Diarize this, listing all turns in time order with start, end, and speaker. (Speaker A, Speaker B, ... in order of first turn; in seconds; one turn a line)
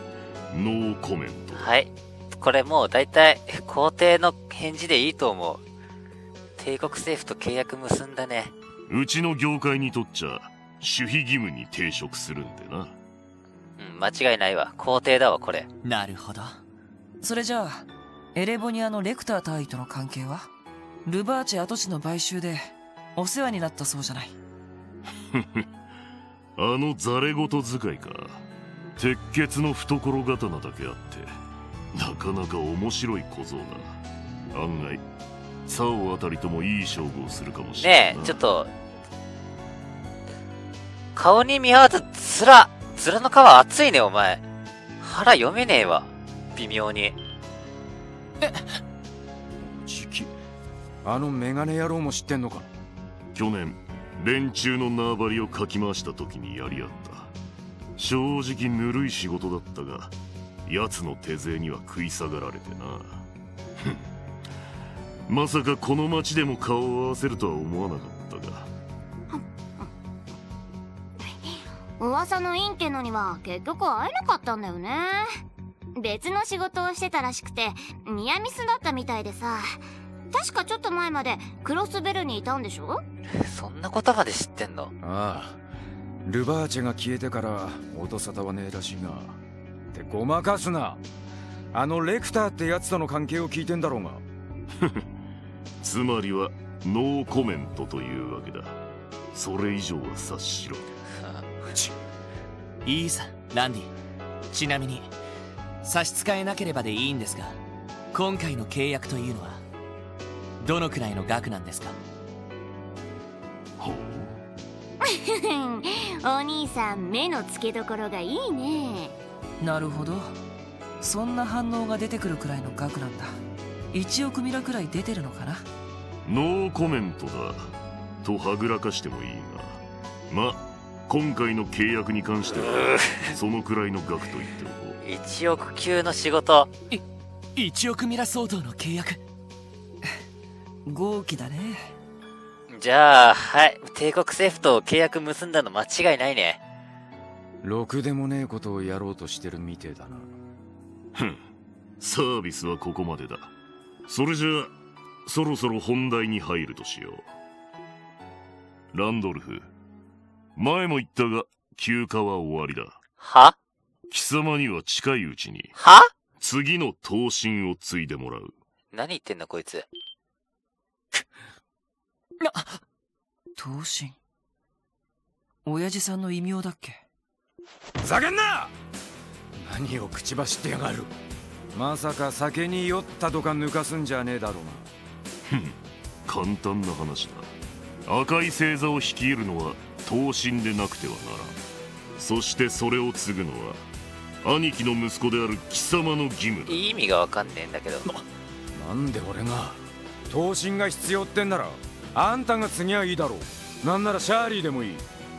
Speaker A: 0.5-1.7
Speaker B: 1.5-5.6
Speaker B: 6.6-8.5
Speaker A: 8.9-12.9
Speaker B: 13.8-15.7
Speaker C: 15.8-16.6
Speaker D: 17.2-20.5
Speaker D: 21.1-24.4
Speaker A: 25.4-25.6
Speaker A: 26.6-28.4
Speaker A: 29.0-31.3
Speaker A: 31.9-34.0
Speaker A: 34.5-35.0
Speaker A: 35.7-38.4
Speaker B: 37.8-38.7
Speaker B: 41.2-44.4
Speaker B: 45.0-47.2
Speaker E: 49.6-50.3
Speaker E: 51.0-52.7
Speaker A: 53.3-57.3
Speaker A: 58.0-60.1
Speaker A: 60.7-63.3
Speaker A: 65.3-68.7
Speaker F: 69.3-69.9
Speaker F: 71.2-75.4
Speaker F: 76.0-83.0
Speaker B: 83.3-84.9
Speaker E: 85.0-85.6
Speaker E: 86.2-89.4
Speaker E: 89.9-91.0
Speaker E: 91.7-94.2
Speaker A: 95.8-98.8
Speaker A: 99.3-100.9
Speaker B: 101.1-101.5
Speaker C: 102.8-103.9
Speaker C: 104.5-105.1
Speaker C: 105.8-107.6
Speaker C: 108.1-109.6
Speaker C: 110.6-112.0
Speaker A: 113.8-114.3
Speaker F: 115.0-119.2
Speaker D: 119.6-120.3
Speaker D: 121.0-123.4
Speaker D: 123.9-125.7
Speaker A: 126.2-127.7
Speaker A: 128.2-135.0
Speaker B: 132.8-133.2
Speaker B: 135.0-136.7
Speaker C: 137.6-139.2
Speaker D: 140.9-141.9
Speaker B: 142.7-146.6
Speaker E: 147.6-150.3
Speaker A: 152.0-153.5
Speaker A: 154.1-154.7
Speaker A: 155.3-157.3
Speaker A: 158.9-159.7
Speaker A: 160.6-163.0
Speaker B: 163.2-163.6
Speaker A: 164.1-165.8
Speaker B: 165.8-166.1
Speaker A: 166.4-168.5
Speaker B: 168.9-169.9
Speaker C: 172.4-172.8
Speaker D: 173.6-174.2
Speaker D: 175.7-177.0
Speaker E: 178.0-178.7
Speaker E: 179.6-181.1
Speaker E: 181.7-184.9
Speaker A: 186.3-187.5
Speaker A: 188.1-191.6
Speaker A: 192.2-193.8
Speaker A: 194.4-196.8
Speaker B: 196.7-198.1
Speaker E: 198.7-205.1